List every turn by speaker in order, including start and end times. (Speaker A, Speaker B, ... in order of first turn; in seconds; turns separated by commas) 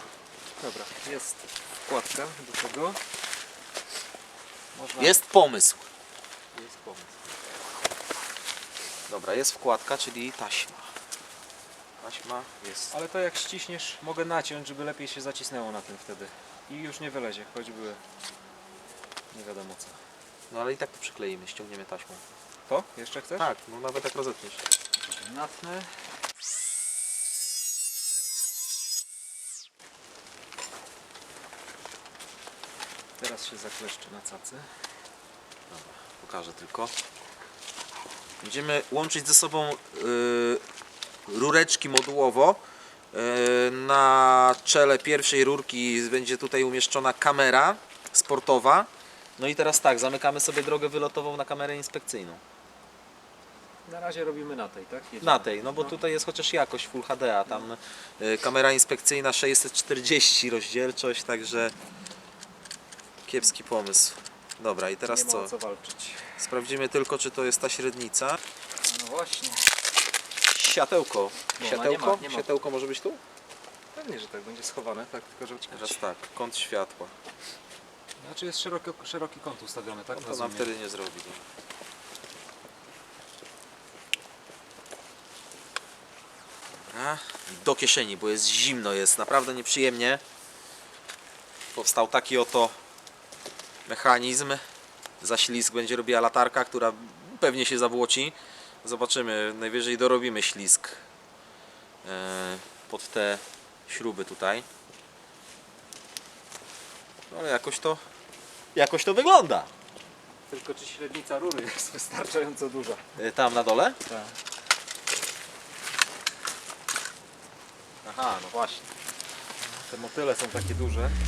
Speaker A: 0.6-3.0, Speaker A: 4.7-5.2, Speaker B: 5.0-5.9, Speaker A: 6.5-7.1, Speaker B: 9.1-10.9, Speaker B: 12.0-12.9, Speaker A: 12.9-18.0, Speaker A: 19.3-20.0, Speaker B: 20.5-22.2, Speaker A: 22.7-23.5, Speaker B: 23.4-24.6, Speaker A: 25.0-25.9, Speaker A: 33.2-34.7, Speaker B: 35.7-36.9, Speaker B: 38.4-40.6, Speaker B: 41.3-42.6, Speaker B: 43.1-52.4, Speaker A: 53.9-55.9, Speaker B: 55.2-61.7, Speaker B: 63.2-65.5, Speaker A: 65.1-66.2, Speaker B: 66.4-68.4, Speaker A: 68.8-69.6, Speaker B: 70.4-73.2, Speaker A: 71.6-72.5, Speaker A: 74.0-76.0, Speaker B: 75.7-77.1, Speaker A: 78.2-80.7, Speaker B: 80.1-81.4, Speaker B: 86.8-90.2, Speaker B: 91.7-92.8, Speaker B: 93.8-94.6, Speaker B: 95.2-101.0, Speaker B: 102.0-104.7, Speaker B: 107.3-108.0, Speaker B: 108.7-109.7, Speaker A: 110.5-113.0, Speaker B: 113.2-114.0, Speaker A: 114.1-114.3, Speaker B: 118.0-118.9, Speaker A: 119.6-121.2